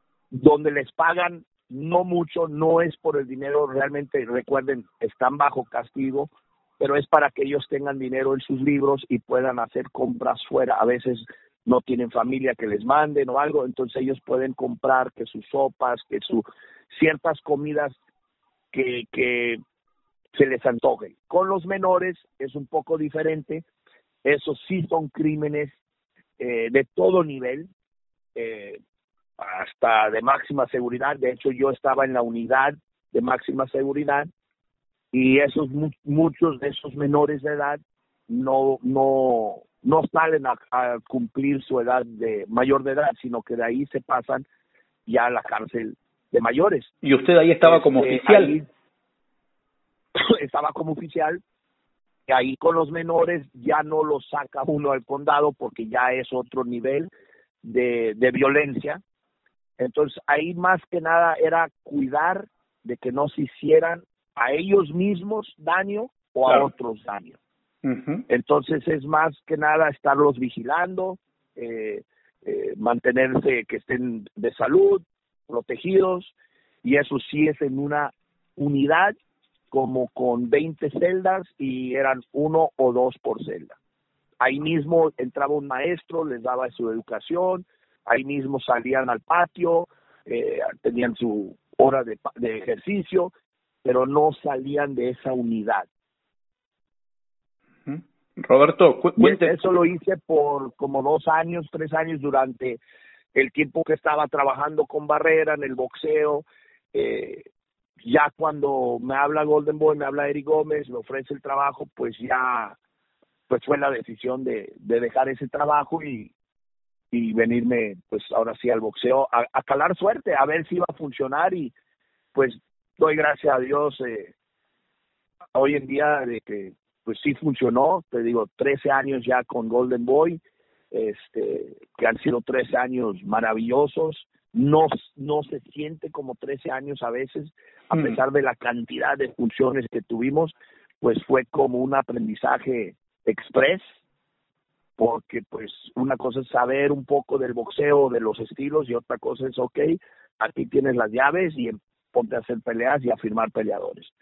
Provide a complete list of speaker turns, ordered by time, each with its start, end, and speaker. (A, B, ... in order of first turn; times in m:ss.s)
0:00.3-0:18.0 A
0:18.7-0:19.6 A
0:20.3-0:23.6 A
0:24.2-0:25.7 A
0:26.4-0:27.7 A
0:28.3-0:28.8 A
0:29.4-0:34.3 A
0:35.1-0:44.4 A
0:45.0-0:46.9 A
0:47.0-0:48.5 B
0:47.6-0:48.6 A
0:50.2-0:51.4 A
0:52.3-0:57.1 A
0:57.6-0:59.0 A
0:59.8-1:07.4 A
1:07.8-1:08.2 B
1:08.3-1:19.1 A
1:19.7-1:23.8 A
1:24.4-1:33.3 A
1:33.8-1:35.9 A
1:37.8-1:39.5 B
1:39.2-1:42.8 A
1:43.3-1:47.4 A
1:48.0-1:52.8 A
1:53.5-1:56.3 A
1:57.1-2:01.7 A
2:02.3-2:04.3 A
2:05.5-2:10.4 A
2:10.9-2:23.8 A
2:25.0-2:34.1 A